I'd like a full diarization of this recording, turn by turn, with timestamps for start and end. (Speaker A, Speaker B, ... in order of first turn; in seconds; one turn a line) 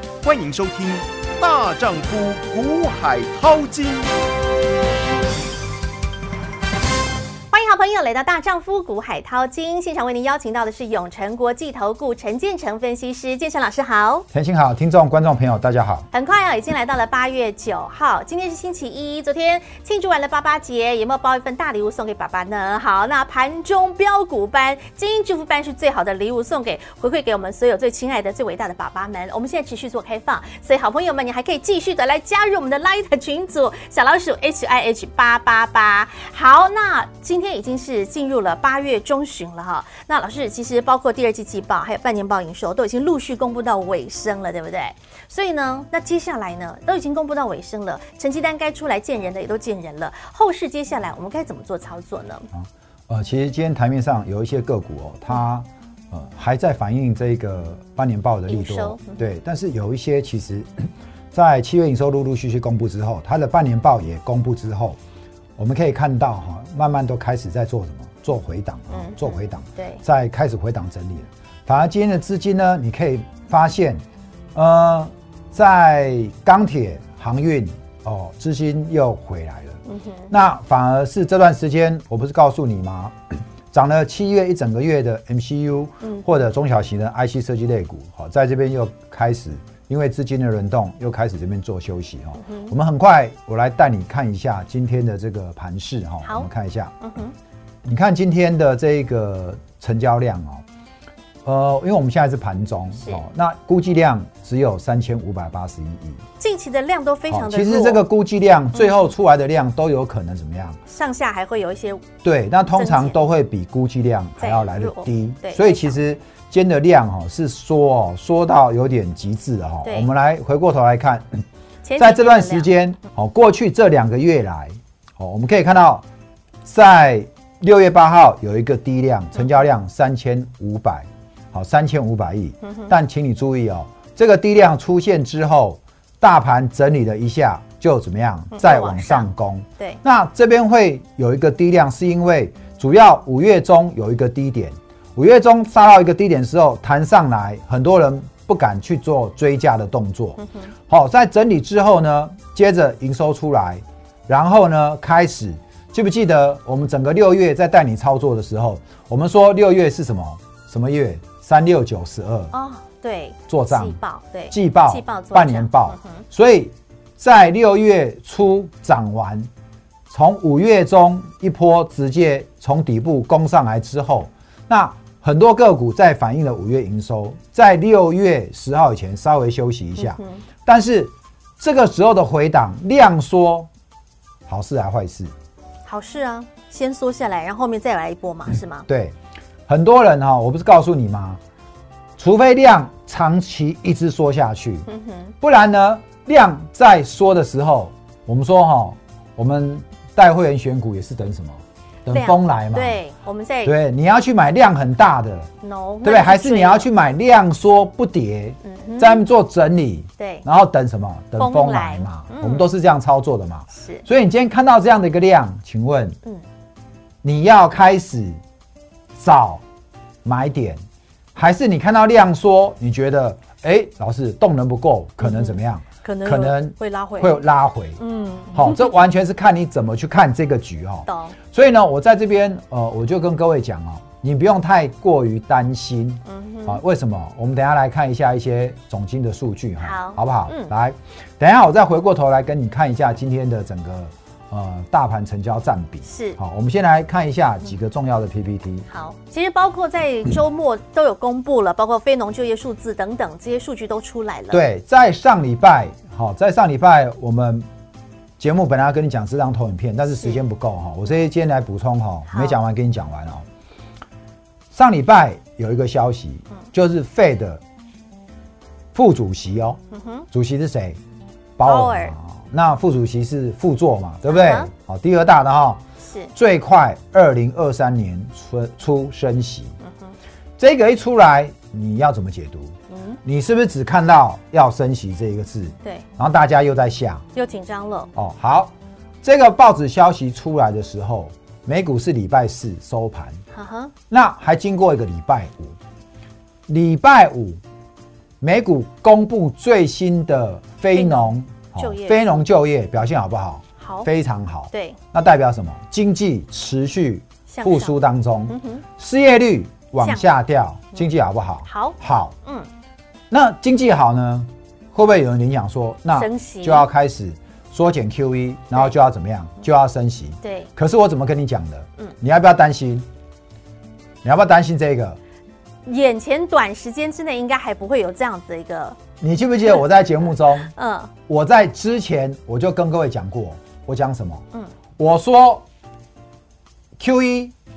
Speaker A: 0.2-4.1
Speaker B: 7.5-14.3
Speaker C: 14.3-16.1
Speaker B: 16.1-52.5
Speaker C: 52.5-65.0
Speaker B: 58.5-59.2
Speaker C: 65.6-74.0
Speaker B: 68.9-70.0
Speaker C: 74.5-97.0
Speaker B: 79.8-80.3
Speaker B: 86.0-86.3
Speaker B: 92.4-92.7
Speaker B: 96.2-97.3
Speaker C: 97.8-100.6
Speaker C: 101.4-106.2
Speaker B: 103.0-103.2
Speaker B: 106.4-108.0
Speaker C: 107.3-110.8
Speaker B: 110.9-112.1
Speaker C: 112.2-121.4
Speaker B: 112.7-113.2
Speaker B: 114.4-116.0
Speaker B: 119.8-120.1
Speaker B: 121.8-122.7
Speaker C: 122.0-126.0
Speaker C: 126.6-162.5
Speaker B: 132.6-132.9
Speaker B: 138.5-140.0
Speaker B: 162.5-166.2
Speaker C: 163.5-169.5
Speaker C: 170.1-183.7
Speaker B: 180.0-180.4
Speaker C: 184.5-185.3
Speaker B: 185.8-188.9
Speaker C: 188.9-189.2
Speaker C: 189.7-191.4
Speaker C: 192.2-194.9
Speaker B: 194.9-195.3
Speaker C: 195.4-203.0
Speaker B: 202.1-203.7
Speaker C: 203.6-205.5
Speaker B: 205.6-206.9
Speaker C: 206.0-216.2
Speaker B: 208.6-209.2
Speaker B: 210.2-210.4
Speaker B: 211.4-212.7
Speaker B: 213.7-214.1
Speaker C: 217.2-218.4
Speaker C: 219.2-219.6
Speaker C: 220.2-220.8
Speaker C: 221.3-228.0
Speaker B: 225.2-227.4
Speaker B: 228.0-228.9
Speaker C: 228.5-248.8
Speaker B: 231.1-231.3
Speaker B: 236.2-236.8
Speaker B: 239.8-240.7
Speaker B: 246.0-246.4
Speaker B: 248.9-254.6
Speaker C: 254.5-257.7
Speaker C: 258.4-263.4
Speaker B: 262.3-262.6
Speaker C: 264.7-267.6
Speaker C: 268.9-269.8
Speaker B: 269.9-270.3
Speaker C: 270.3-271.0
Speaker C: 271.6-275.8
Speaker B: 271.6-272.1
Speaker B: 274.3-274.7
Speaker B: 276.0-276.3
Speaker C: 276.3-279.8
Speaker B: 279.8-280.1
Speaker C: 280.6-282.7
Speaker B: 282.9-283.2
Speaker C: 283.2-287.2
Speaker B: 287.3-288.1
Speaker C: 288.1-293.4
Speaker B: 293.5-293.9
Speaker C: 294.1-295.7
Speaker C: 296.7-297.6
Speaker C: 298.4-312.3
Speaker B: 300.9-302.4
Speaker B: 303.8-304.1
Speaker B: 304.7-305.0
Speaker B: 307.5-308.8
Speaker B: 310.0-310.3
Speaker B: 311.6-312.7
Speaker C: 313.3-323.1
Speaker B: 316.1-316.9
Speaker B: 320.4-320.7
Speaker C: 324.2-325.2
Speaker B: 325.9-329.0
Speaker C: 329.2-330.7
Speaker B: 330.5-331.1
Speaker C: 331.3-334.4
Speaker C: 335.0-335.6
Speaker C: 337.0-337.5